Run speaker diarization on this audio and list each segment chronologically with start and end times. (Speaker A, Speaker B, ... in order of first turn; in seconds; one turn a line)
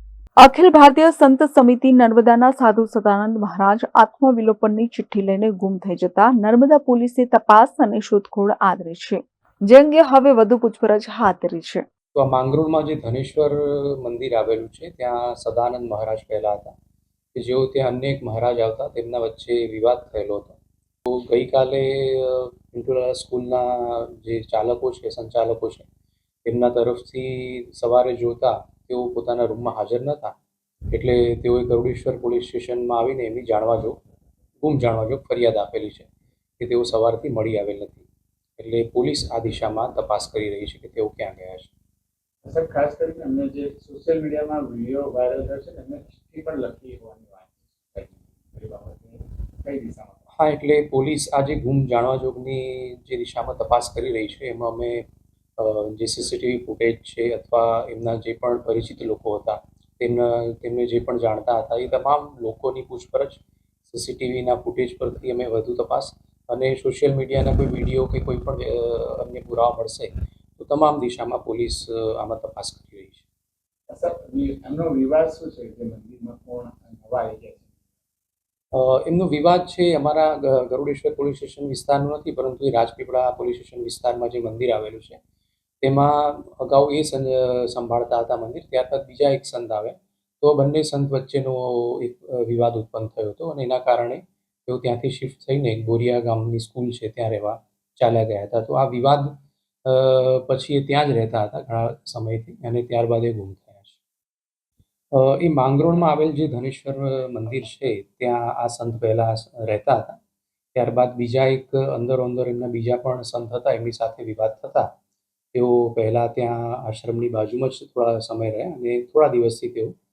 Speaker A: 0.4-11.8
Speaker B: 12.1-16.7
Speaker B: 17.3-25.9
Speaker B: 26.4-30.4
Speaker B: 30.9-34.0
Speaker B: 34.6-36.1
Speaker B: 36.6-41.7
Speaker C: 42.4-50.2
Speaker B: 50.4-55.0
Speaker B: 55.6-73.2
Speaker C: 73.9-77.8
Speaker B: 78.7-85.2
Speaker B: 85.8-99.3
Speaker B: 99.8-104.0
Speaker B: 105.1-110.2
Speaker B: 110.7-114.9
Speaker B: 115.5-119.9